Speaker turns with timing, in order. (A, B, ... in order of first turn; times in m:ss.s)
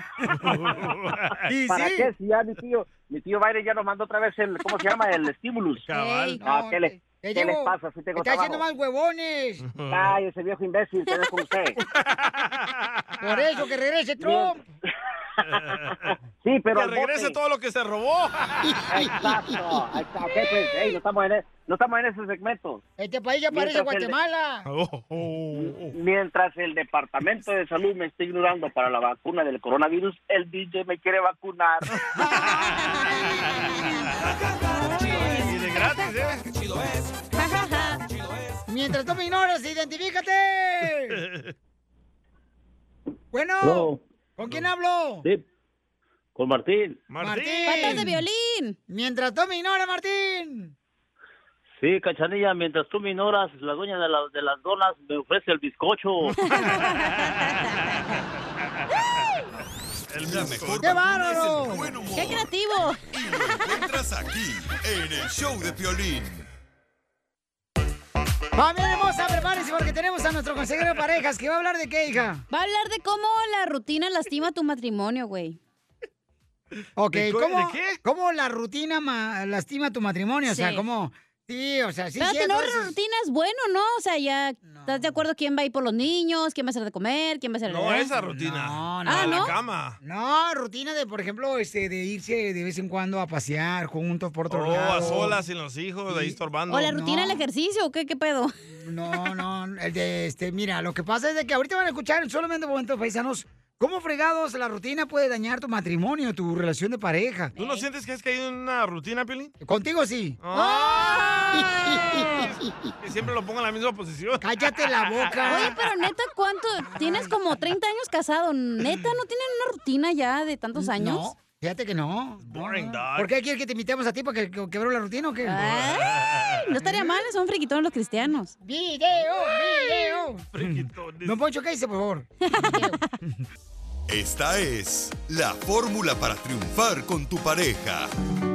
0:00.3-0:01.4 A
0:01.5-0:02.1 B
0:01.7-0:05.9 C
0:05.9-0:06.4 A
0:05.9-0:06.4 D
0:06.4-0:08.6 C
0:06.4-0:09.7 B
0:09.6-0:10.2 A
0:09.9-0:11.8 C
0:11.8-0:13.5 A
0:13.2-0:14.7 B
0:14.2-0:14.6 C
0:15.4-0:15.7 C
0:15.5-0:16.2 A
0:16.4-0:17.4 C
0:16.7-0:19.1 A
0:18.9-0:22.8 C
0:23.0-0:24.7 B
0:23.5-0:24.2 C
0:24.7-0:25.9 A
0:25.5-0:31.9 C
0:32.2-0:32.6 B
0:32.3-0:32.8 A
0:35.0-0:35.4 B
0:35.0-0:36.4 A
0:37.4-0:38.0 D
0:38.7-0:41.2 B
0:41.2-0:41.5 A
0:43.3-0:45.3 B
0:43.6-0:44.0 E
0:46.4-0:47.0 E
0:47.1-0:48.0 A
0:47.2-0:48.2 B
0:47.6-0:48.8 D
0:48.9-0:50.7 B
0:51.8-0:56.3 E
0:56.2-0:57.1 A
0:56.4-0:57.7 D
1:00.1-1:01.1 A
1:00.2-1:02.5 F
1:00.8-1:01.9 B
1:02.1-1:03.0 D
1:03.1-1:06.5 F
1:08.6-1:12.4 B
1:12.5-1:15.6 D
1:17.0-1:22.9 B
1:17.1-1:18.0 A
1:20.5-1:20.8 D
1:22.2-1:28.1 D
1:24.6-1:25.1 B
1:27.7-1:30.0 A
1:28.2-1:29.5 B
1:29.0-1:29.5 D
1:30.0-1:35.4 B
1:34.5-1:37.0 A
1:36.1-1:37.4 B
1:36.7-1:38.5 D
1:38.8-1:47.5 B
1:47.6-1:49.5 A
1:47.6-1:47.8 D
1:49.6-1:50.4 B
1:50.4-1:55.7 A
1:50.5-1:51.9 D
1:51.9-1:52.4 B
1:54.4-1:55.8 B
1:55.5-2:01.3 D
1:57.0-1:57.3 B
2:00.8-2:05.8 B
2:02.4-2:03.3 A
2:05.5-2:08.5 D
2:05.6-2:06.6 A
2:06.8-2:07.2 B
2:08.6-2:13.4 B
2:09.7-2:10.1 D
2:10.5-2:11.4 A
2:12.5-2:13.1 D
2:14.1-2:18.1 F